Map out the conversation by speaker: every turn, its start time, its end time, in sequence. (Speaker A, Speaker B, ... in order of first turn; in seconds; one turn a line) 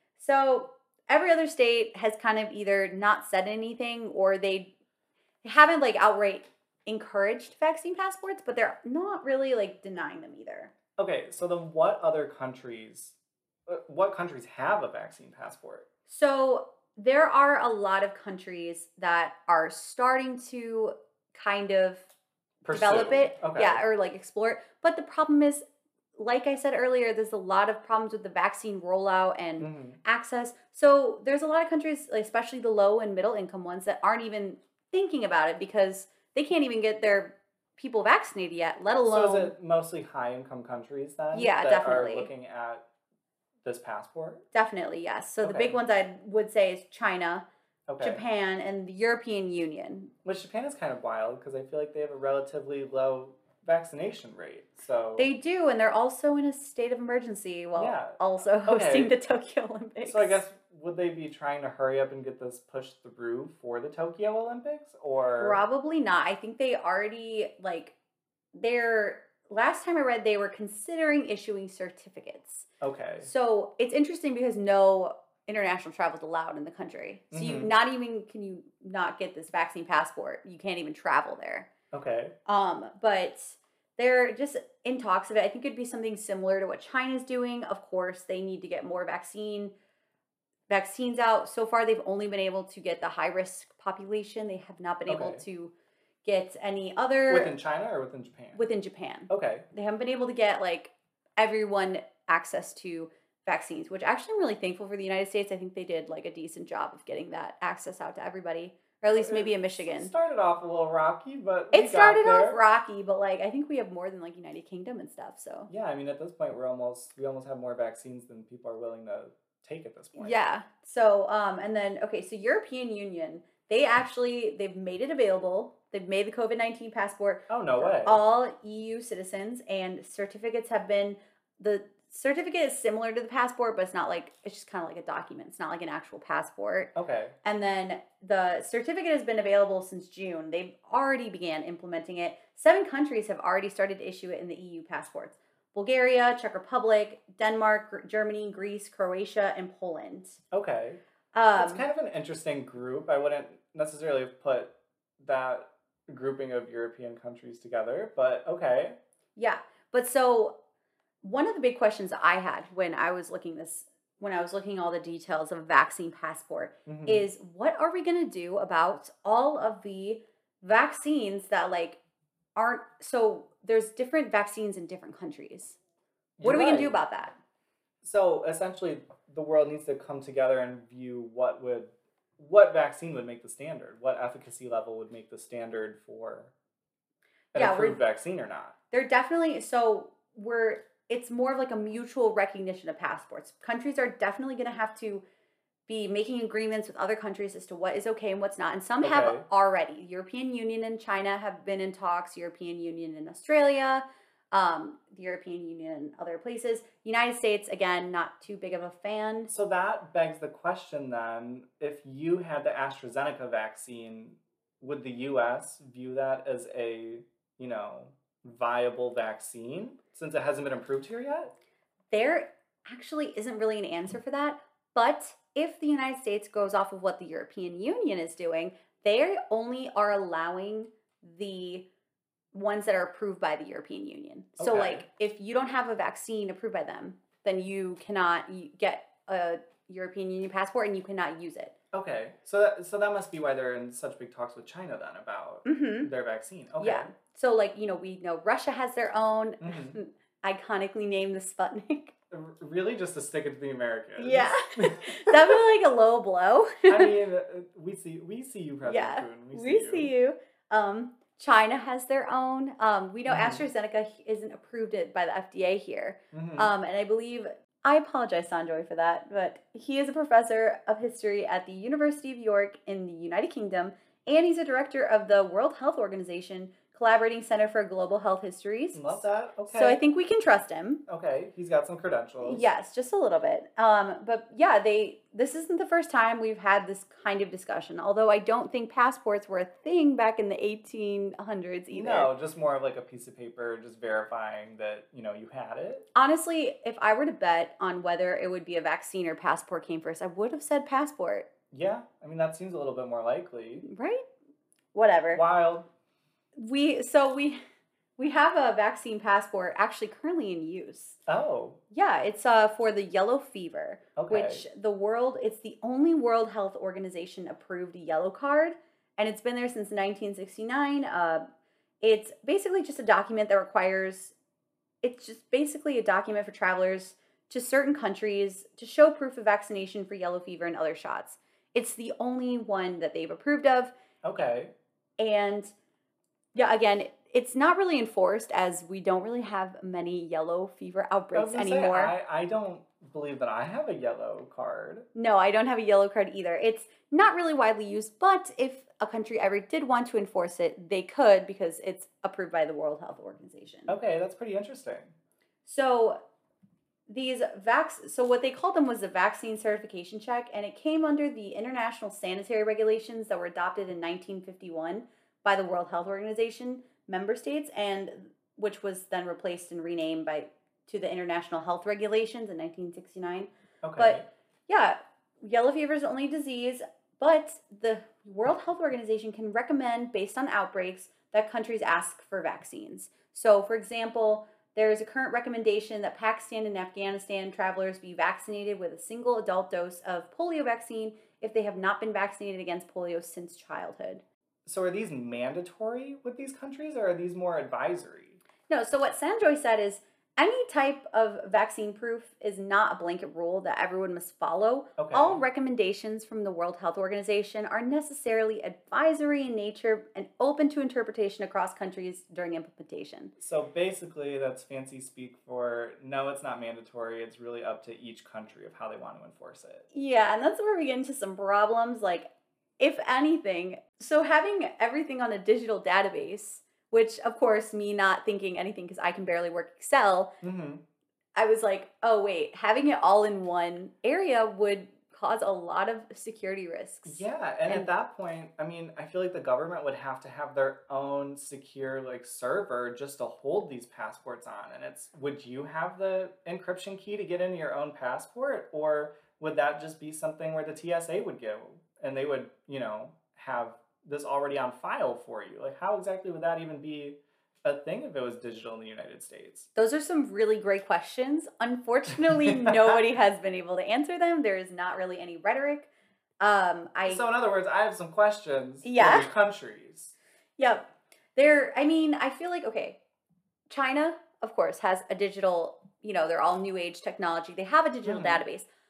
Speaker A: 0.2-4.7
Speaker A: 5.4-10.7
Speaker B: 11.0-13.2
Speaker B: 13.7-15.8
Speaker A: 16.1-22.1
Speaker B: 22.6-23.8
Speaker A: 22.7-25.6
Speaker A: 26.1-39.5
Speaker B: 29.6-30.0
Speaker B: 39.0-42.8
Speaker A: 41.3-42.3
Speaker B: 43.6-44.4
Speaker A: 44.5-47.4
Speaker B: 45.4-45.8
Speaker B: 47.9-48.2
Speaker A: 48.0-50.1
Speaker B: 50.2-55.3
Speaker A: 55.2-60.4
Speaker B: 57.7-59.1
Speaker B: 60.0-65.6
Speaker A: 65.4-67.9
Speaker A: 68.5-72.7
Speaker B: 72.8-73.3
Speaker A: 73.2-81.7
Speaker B: 77.3-77.7
Speaker B: 81.9-82.3
Speaker A: 82.5-89.7
Speaker A: 90.7-95.7
Speaker B: 95.1-95.4
Speaker A: 96.2-97.5
Speaker B: 97.3-98.6
Speaker A: 98.5-110.1
Speaker B: 99.3-99.7
Speaker B: 109.1-112.6
Speaker A: 111.7-115.7
Speaker B: 115.7-120.4
Speaker A: 120.2-136.9
Speaker B: 127.5-128.2
Speaker B: 136.9-137.3
Speaker A: 137.4-150.4
Speaker B: 150.5-151.0
Speaker A: 151.3-151.8
Speaker B: 151.5-159.0
Speaker A: 159.3-160.6
Speaker A: 161.2-172.0
Speaker B: 166.9-167.2
Speaker A: 172.6-175.8
Speaker B: 176.4-176.9
Speaker A: 176.4-177.3
Speaker B: 178.0-186.5
Speaker A: 187.5-188.0
Speaker B: 187.5-188.7
Speaker A: 188.9-195.2
Speaker A: 195.9-209.5
Speaker B: 199.0-199.4
Speaker B: 209.5-221.5
Speaker A: 222.1-231.9
Speaker A: 232.5-241.7
Speaker B: 234.6-235.0
Speaker B: 241.9-247.1
Speaker A: 245.7-246.1
Speaker A: 246.8-252.1
Speaker B: 249.6-250.0
Speaker B: 252.3-255.6
Speaker A: 254.2-257.1
Speaker B: 256.9-260.1
Speaker A: 258.8-281.0
Speaker B: 263.3-263.6
Speaker B: 266.3-266.7
Speaker B: 278.9-280.0
Speaker B: 281.1-282.6
Speaker A: 282.4-292.3
Speaker B: 291.9-296.0
Speaker A: 296.1-301.5
Speaker B: 301.7-303.9
Speaker A: 303.8-304.2
Speaker A: 304.9-305.4
Speaker B: 305.3-305.9
Speaker A: 306.6-307.6
Speaker A: 308.2-311.2
Speaker B: 311.3-311.8
Speaker A: 311.9-321.4
Speaker B: 314.2-314.6
Speaker A: 322.0-324.3
Speaker A: 325.0-333.9
Speaker B: 334.2-334.7
Speaker A: 335.2-335.7
Speaker A: 336.5-342.1
Speaker B: 341.3-345.1
Speaker A: 345.1-353.9
Speaker B: 353.9-355.1
Speaker A: 355.6-356.2
Speaker A: 357.1-394.2
Speaker B: 373.8-374.2
Speaker B: 394.6-398.4
Speaker A: 398.7-413.3
Speaker B: 405.0-405.4
Speaker B: 413.4-419.9
Speaker A: 419.9-430.3
Speaker B: 430.4-430.8
Speaker A: 431.4-437.9
Speaker B: 437.0-459.7
Speaker A: 459.7-467.2
Speaker B: 462.1-463.0
Speaker B: 467.1-470.1
Speaker A: 468.8-469.3
Speaker A: 470.6-473.0
Speaker A: 473.7-478.6
Speaker B: 478.0-478.4